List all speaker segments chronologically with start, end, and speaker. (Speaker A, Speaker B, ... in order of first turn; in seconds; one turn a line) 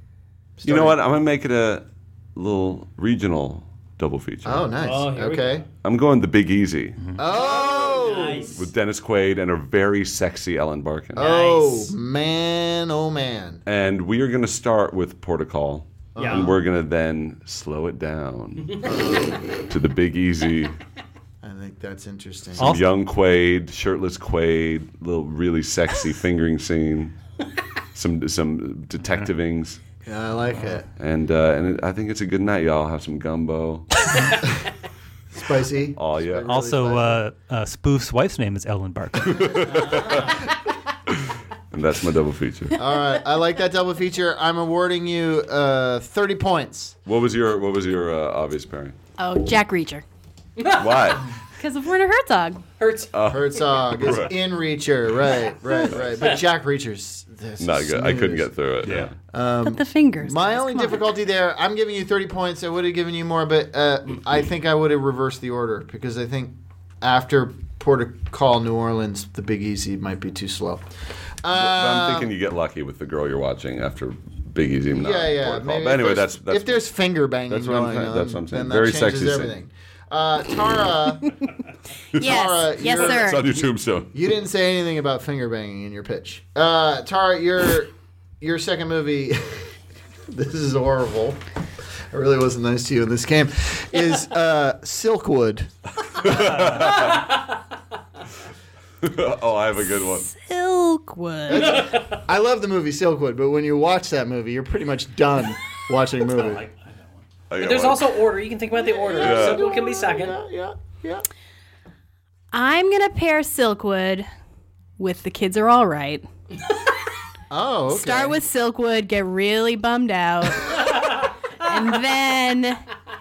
Speaker A: 0.6-1.0
Speaker B: 0.7-4.7
Speaker A: 4.5-5.7
Speaker C: 4.8-5.6
Speaker B: 5.8-7.0
Speaker A: 7.2-8.6
Speaker C: 7.3-8.6
Speaker B: 8.5-11.3
Speaker A: 11.1-13.6
Speaker C: 11.2-11.9
Speaker B: 13.7-18.9
Speaker A: 16.1-16.6
Speaker C: 16.2-16.5
Speaker A: 18.8-19.6
Speaker B: 19.6-20.8
Speaker A: 21.4-22.8
Speaker D: 22.6-22.9
Speaker B: 22.6-27.1
Speaker B: 27.9-29.8
Speaker A: 30.1-30.9
Speaker B: 31.0-34.3
Speaker A: 35.3-37.2
Speaker B: 36.0-36.5
Speaker D: 36.5-39.6
Speaker B: 39.2-40.5
Speaker C: 39.6-40.4
Speaker B: 41.1-42.8
Speaker A: 42.8-47.0
Speaker B: 47.1-49.0
Speaker E: 49.2-50.0
Speaker C: 50.6-51.2
Speaker B: 50.7-51.3
Speaker E: 51.6-52.6
Speaker C: 52.8-53.1
Speaker B: 53.1-54.3
Speaker A: 53.3-70.9
Speaker B: 55.9-56.4
Speaker B: 57.6-59.1
Speaker E: 59.6-61.1
Speaker A: 71.4-72.3
Speaker B: 71.5-76.8
Speaker A: 74.9-81.3
Speaker B: 77.5-79.5
Speaker B: 82.1-84.1
Speaker E: 82.2-83.4
Speaker A: 82.2-89.7
Speaker A: 90.3-91.4
Speaker A: 92.1-95.7
Speaker B: 96.2-97.3
Speaker A: 96.2-96.5
Speaker D: 96.7-97.0
Speaker C: 96.8-97.5
Speaker B: 99.0-100.3
Speaker E: 99.9-101.8
Speaker A: 101.5-106.6
Speaker C: 101.6-102.2
Speaker B: 107.5-108.2
Speaker C: 107.6-110.4
Speaker A: 108.7-111.2
Speaker B: 109.2-109.6
Speaker E: 112.5-114.3
Speaker E: 115.0-116.2
Speaker A: 117.5-118.4
Speaker E: 117.9-122.8